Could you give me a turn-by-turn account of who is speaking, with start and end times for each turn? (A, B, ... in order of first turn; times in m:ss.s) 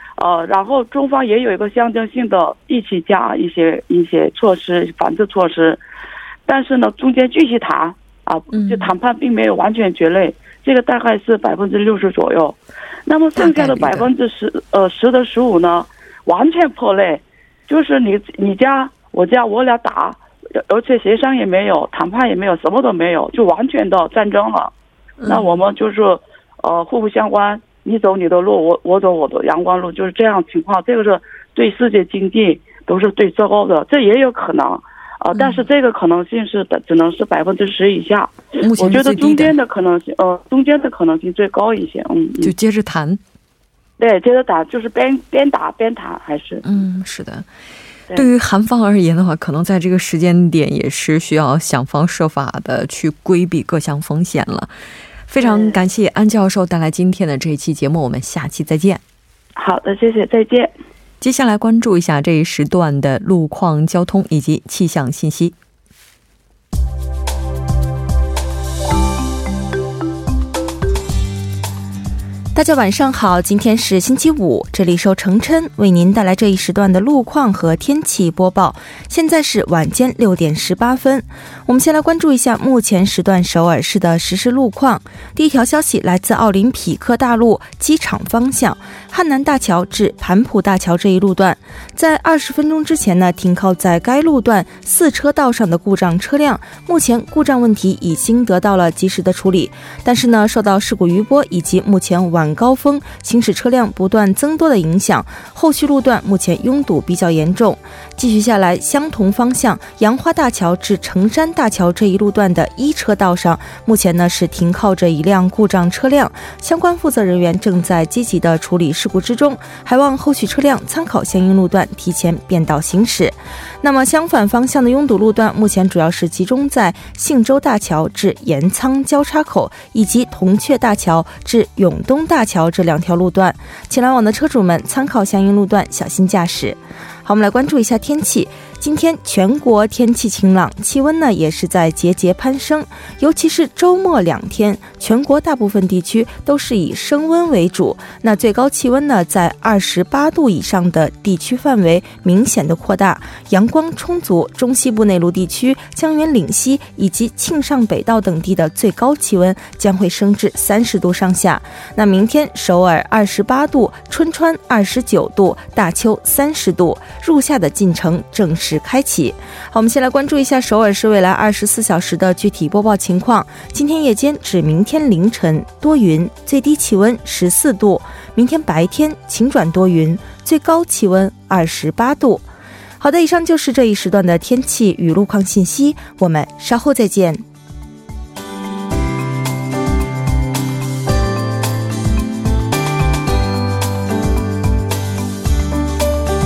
0:00.2-0:05.8 A
0:06.5-0:24.7 A
0:08.5-0:08.9 B
0:13.4-0:14.1 B
0:25.2-0:25.6 B
0:25.2-0:42.5 A
0:35.3-0:35.6 B
0:38.6-0:39.6 B
0:42.4-0:43.2 B
0:44.0-0:46.6 A
0:46.6-0:47.5 B
0:48.1-0:54.7 B
0:55.3-0:59.0 B
0:55.4-0:55.8 A
0:59.6-1:00.7 A
1:01.2-1:05.5 B
1:12.5-3:02.5 C
3:03.0-3:07.4 C